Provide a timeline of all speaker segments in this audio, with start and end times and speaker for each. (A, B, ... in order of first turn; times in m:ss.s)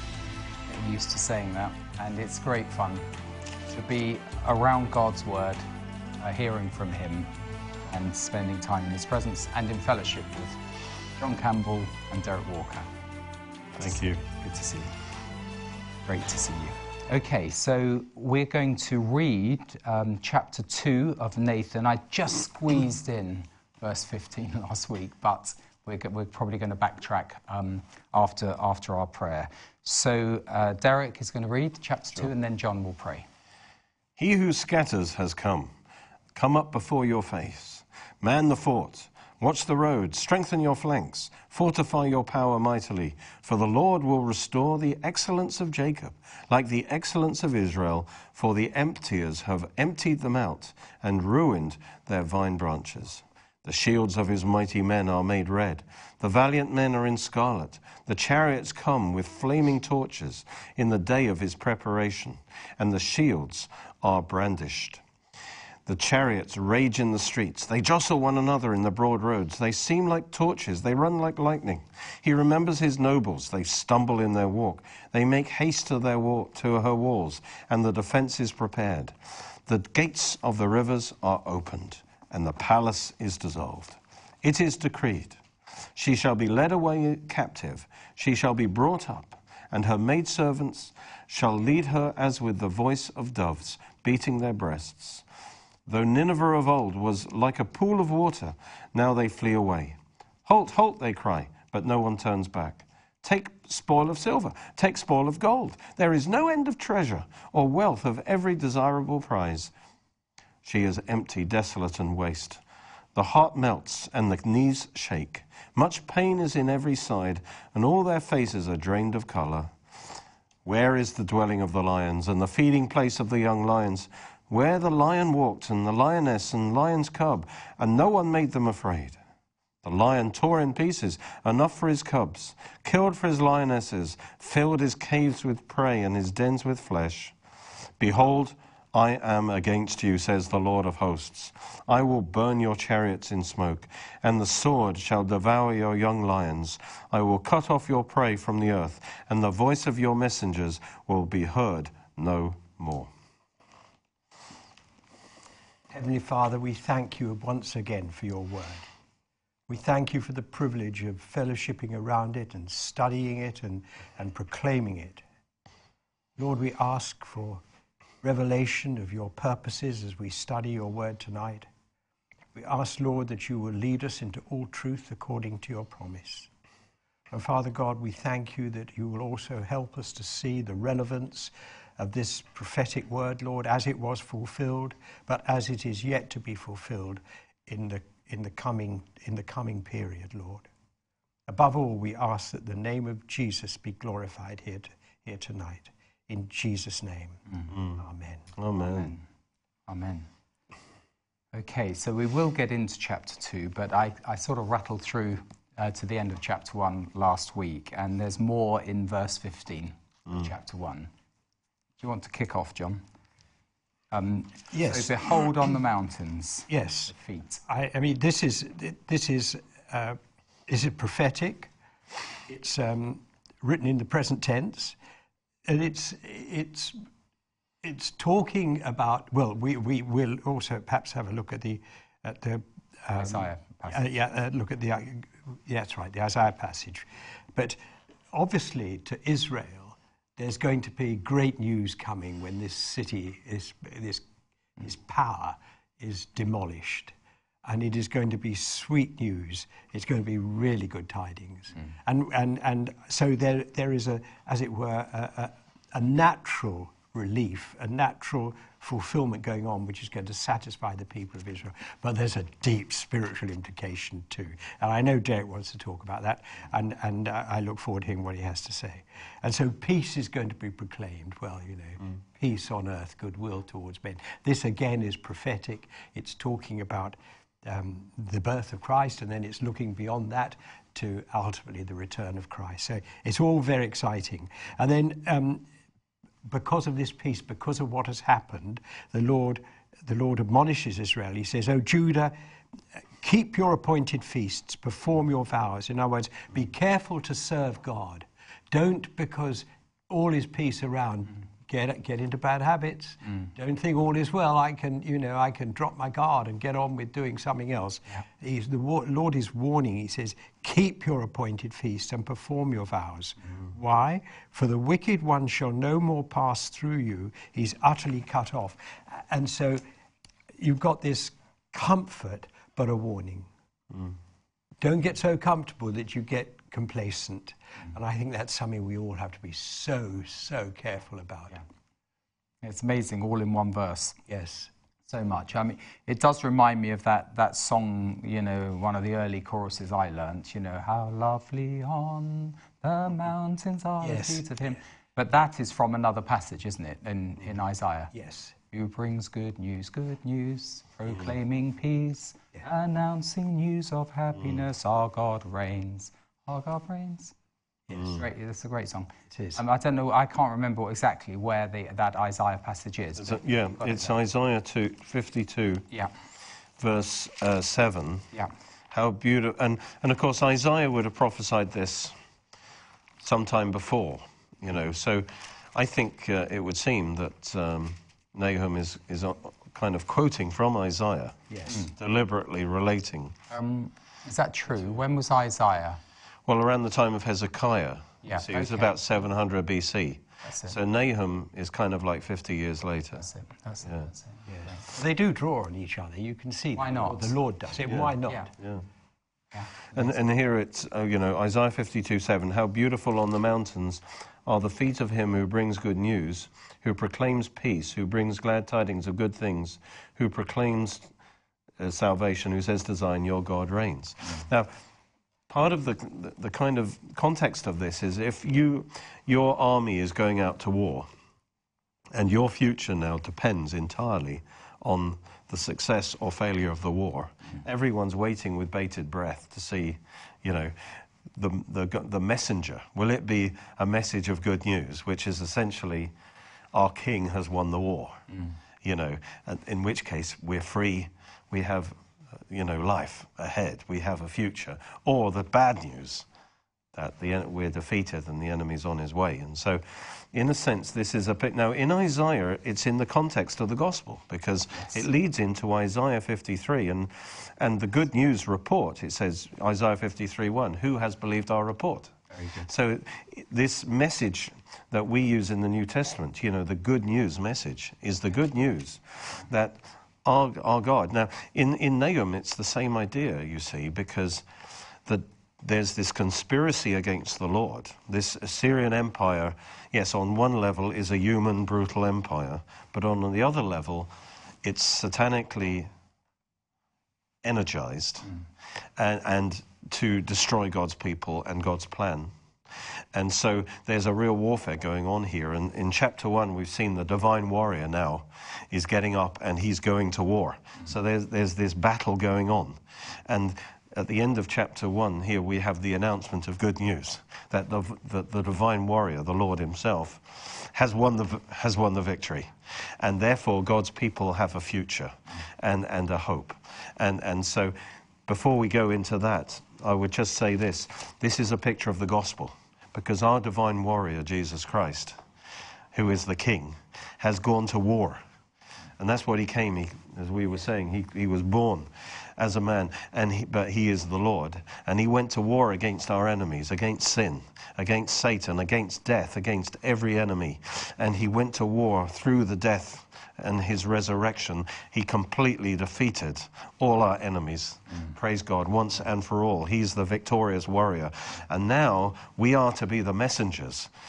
0:00.7-0:03.1 A
0:03.7-0:05.6 A
0:06.2-0:07.3 A
0:07.9-0:10.6 A
0:11.2-0:12.9 A
0:13.8-0:14.2 B
0:13.8-0:15.0 A
0:16.0-0:33.2 A
0:34.2-0:35.8 B
0:36.4-1:05.0 B
1:05.9-1:25.4 B
1:26.0-1:35.2 B
1:35.9-1:49.7 B
1:50.6-1:52.6 B
1:53.2-1:59.8 B
2:00.6-2:09.2 B
2:09.8-2:17.4 B
2:18.0-2:33.1 B
2:35.9-2:38.9 C
2:39.7-2:45.2 C
2:46.4-2:47.6 C
2:48.2-2:51.7 C
2:52.6-2:56.5 C
2:57.3-3:10.7 C
3:11.5-3:17.4 C
3:17.7-3:18.0 B
3:17.9-3:18.5 C
3:18.6-3:19.1 B
3:18.8-3:19.2 A
3:19.9-3:20.3 A
3:21.5-3:31.1 A
3:32.0-3:33.0 A
3:34.1-3:37.6 A
3:34.7-3:35.4 C
3:36.7-3:41.7 C
3:42.5-3:45.0 C
3:45.6-3:47.0 C
3:47.8-3:57.8 C
3:53.1-3:54.0 A
3:58.3-4:04.2 C
4:04.8-4:45.7 C
4:46.4-4:52.4 C
4:53.2-5:19.8 C
5:20.6-5:23.5 C
5:24.8-5:31.6 C
5:32.6-5:34.2 A
5:34.3-5:34.7 C
5:35.1-5:48.1 A
5:44.0-5:44.8 C
5:48.1-5:48.5 C
5:48.7-5:57.3 A
5:57.9-5:58.2 C
5:58.0-6:04.1 A
5:59.3-5:59.6 C
6:03.2-6:05.9 B
6:06.8-6:08.3 B
6:08.9-6:12.2 B
6:13.2-6:23.4 B
6:21.5-6:21.8 C
6:23.5-6:26.0 A
6:26.5-6:33.2 B
6:28.2-6:29.0 A
6:30.4-6:30.8 A
6:33.2-6:34.8 A
6:34.5-6:38.5 C
6:36.8-6:37.3 A
6:37.9-6:38.8 B
6:39.5-6:40.1 A
6:39.9-6:51.1 B
6:51.8-6:54.7 B
6:55.5-7:01.1 B
7:02.1-7:16.1 B
7:16.7-7:18.3 B
7:18.8-7:26.3 B
7:27.0-7:54.4 B
7:55.0-8:04.1 B
8:04.6-8:05.9 B
8:07.4-8:08.4 B
8:09.0-8:45.2 B
8:45.9-8:48.2 B
8:49.0-9:13.9 B